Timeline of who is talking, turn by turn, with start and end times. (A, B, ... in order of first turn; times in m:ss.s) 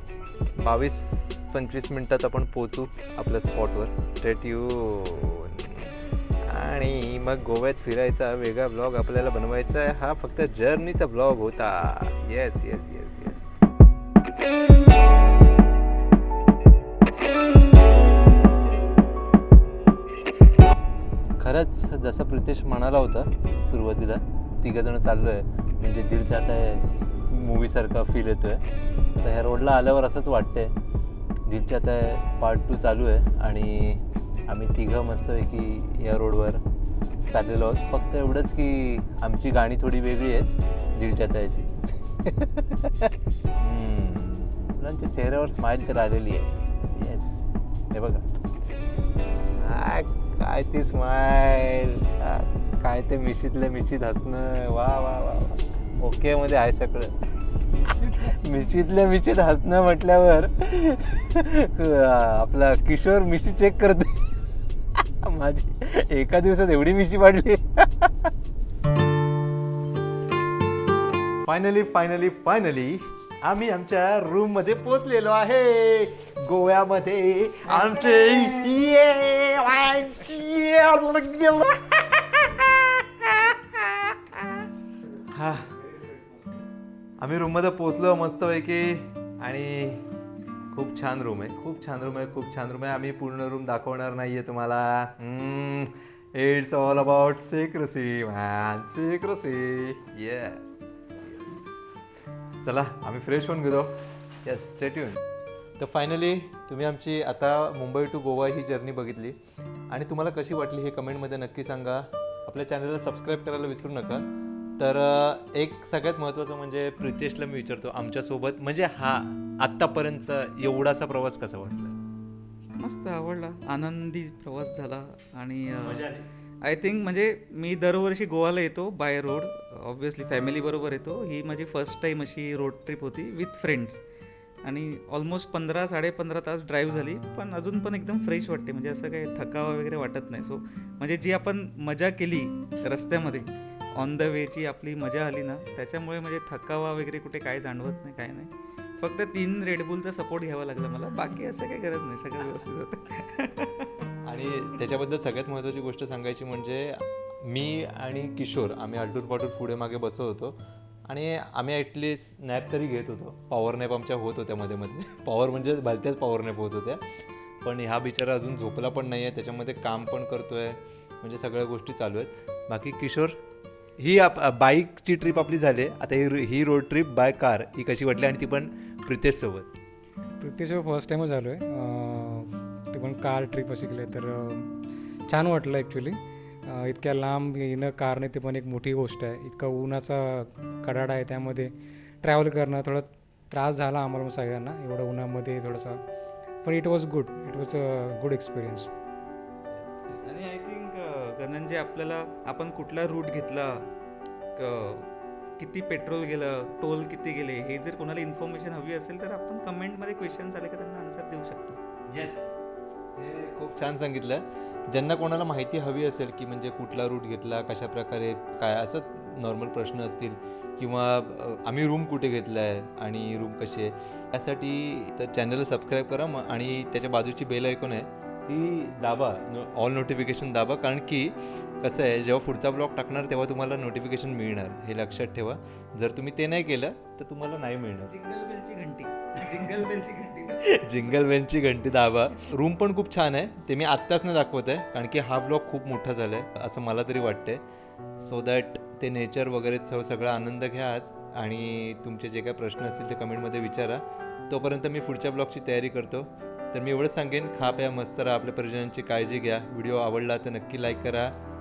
0:00.6-0:13.6 A
0:21.4-0:28.6 A
0:29.1-0:30.7 A
0:31.5-0:36.6 A
0:37.3-0:41.7 A
0:42.2-0:48.2 A
0:49.6-0:57.1 A
0:57.8-1:04.3 A
1:05.0-1:08.3 A
1:11.4-1:24.6 A
1:25.2-1:25.7 A
1:27.2-1:30.0 A
1:30.7-1:41.7 A
1:42.6-1:45.2 A
1:45.8-1:49.4 A
1:49.9-1:54.2 A
1:54.8-2:02.0 A
2:02.8-2:06.1 B
2:05.8-2:06.2 A
2:06.6-2:14.0 B
2:14.6-2:33.9 B
2:34.2-2:40.6 A
2:41.1-2:47.0 A
2:47.6-2:53.4 A
2:54.0-2:59.7 A
3:00.4-3:04.7 C
3:05.3-3:16.0 C
3:16.6-3:18.9 C
3:19.7-3:20.2 A
3:20.2-3:23.9 B
3:24.6-3:31.8 B
3:32.1-3:32.6 A
3:33.2-3:58.1 A
3:58.1-4:01.2 B
4:00.6-4:07.6 A
4:08.2-4:21.3 A